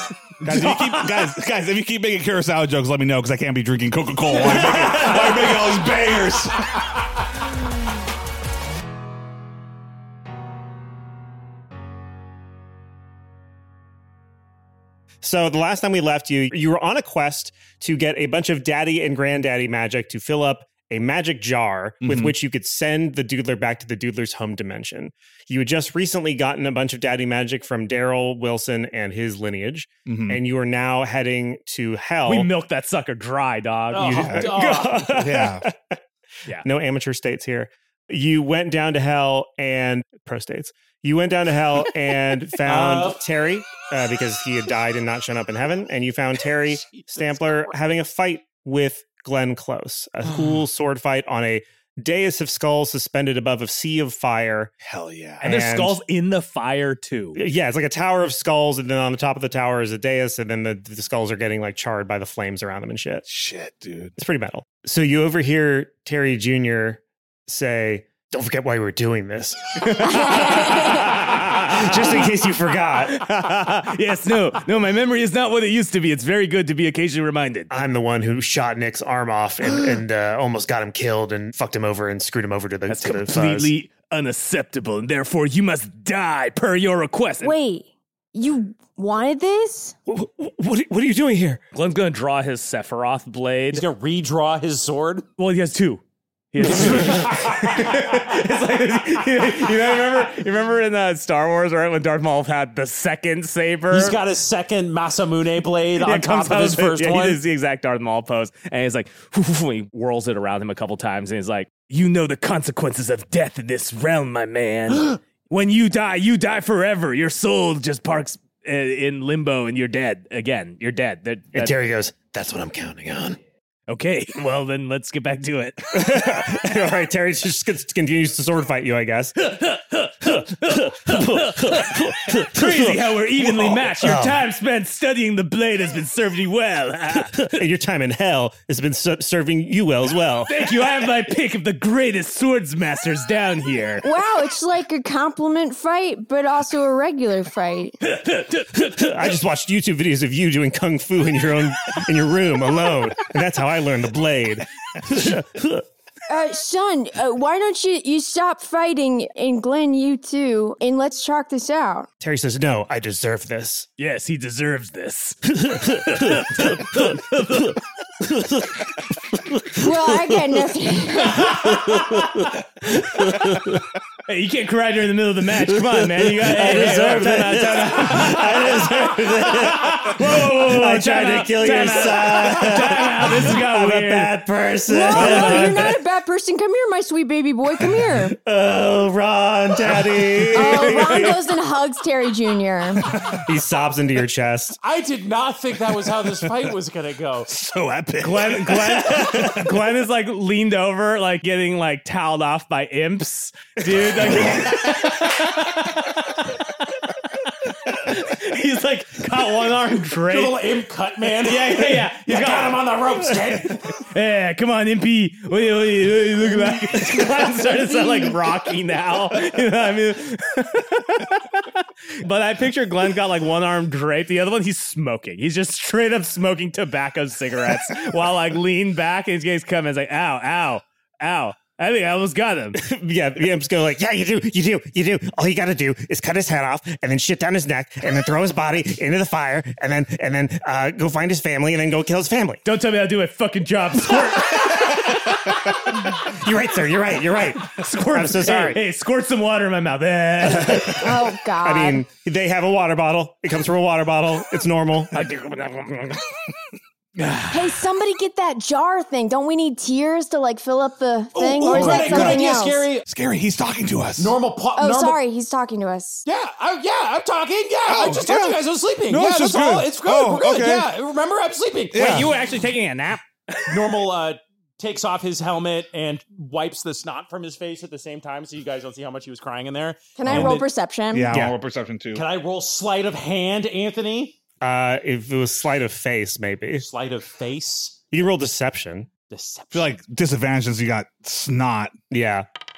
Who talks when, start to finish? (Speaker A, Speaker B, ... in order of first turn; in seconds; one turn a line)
Speaker A: 0.4-6.7
Speaker B: 0.5-1.1
Speaker B: 4.4-5.4
Speaker C: 15.2-32.5
Speaker A: 22.0-22.3
Speaker A: 30.1-30.4
Speaker B: 32.2-34.5
Speaker D: 33.9-35.0
Speaker A: 34.0-34.5
Speaker C: 34.2-36.0
Speaker A: 35.1-35.6
Speaker C: 36.6-54.7
Speaker D: 42.6-43.2
Speaker D: 46.9-47.8
Speaker A: 54.8-55.5
Speaker C: 55.4-56.0
Speaker B: 55.4-57.4
Speaker C: 57.4-63.2
Speaker A: 63.2-64.1
Speaker C: 64.2-69.6
Speaker B: 69.8-72.1
Speaker E: 70.0-71.1
Speaker C: 71.3-73.2
Speaker B: 73.1-77.7
Speaker C: 77.7-83.7
Speaker B: 82.9-87.5
Speaker E: 87.4-89.9
Speaker C: 90.1-91.6
Speaker B: 91.7-93.8
Speaker D: 93.7-95.2
Speaker B: 95.4-96.0
Speaker B: 96.5-104.2
Speaker D: 96.7-97.5
Speaker D: 103.9-107.4
Speaker B: 106.0-121.7
Speaker C: 121.5-123.4
Speaker B: 123.9-126.2
Speaker C: 125.9-129.3
Speaker B: 129.4-137.6
Speaker C: 130.7-134.4
Speaker C: 137.4-140.5
Speaker B: 140.5-144.0
Speaker E: 144.0-147.9
Speaker B: 148.1-149.1
Speaker C: 148.9-155.8
Speaker E: 156.3-162.1
Speaker C: 162.2-163.9
Speaker B: 164.0-167.8
Speaker C: 169.5-169.8
Speaker E: 169.7-171.6
Speaker C: 171.4-173.8
Speaker B: 174.2-184.4
Speaker C: 175.8-185.8
Speaker E: 184.8-188.4
Speaker B: 185.1-185.9
Speaker C: 188.4-191.4
Speaker E: 190.5-193.1
Speaker C: 193.4-194.8
Speaker D: 194.8-197.5
Speaker A: 195.9-196.7
Speaker A: 197.5-199.8
Speaker B: 198.2-206.3
Speaker A: 204.3-204.7
Speaker B: 207.9-210.6
Speaker D: 210.3-213.9
Speaker B: 211.4-213.0
Speaker B: 213.6-232.8
Speaker C: 232.7-242.6
Speaker B: 242.6-245.4
Speaker C: 246.2-248.8
Speaker B: 247.6-251.1
Speaker C: 250.6-250.9
Speaker E: 250.9-252.0
Speaker C: 251.6-255.2
Speaker B: 255.1-256.2
Speaker B: 257.2-257.5
Speaker E: 257.5-262.9
Speaker D: 261.3-263.1
Speaker A: 261.7-262.4
Speaker A: 263.1-264.4
Speaker D: 264.2-265.2
Speaker E: 264.8-266.2
Speaker D: 266.2-272.3
Speaker A: 267.9-270.9
Speaker A: 271.9-272.3
Speaker B: 272.0-273.9
Speaker D: 273.7-280.7
Speaker E: 280.2-281.3
Speaker A: 280.3-280.6
Speaker A: 281.1-282.2
Speaker D: 282.1-284.3
Speaker C: 284.6-286.9
Speaker D: 286.8-287.9
Speaker C: 288.1-289.1
Speaker D: 289.3-289.9
Speaker A: 289.7-291.9
Speaker C: 292.1-292.5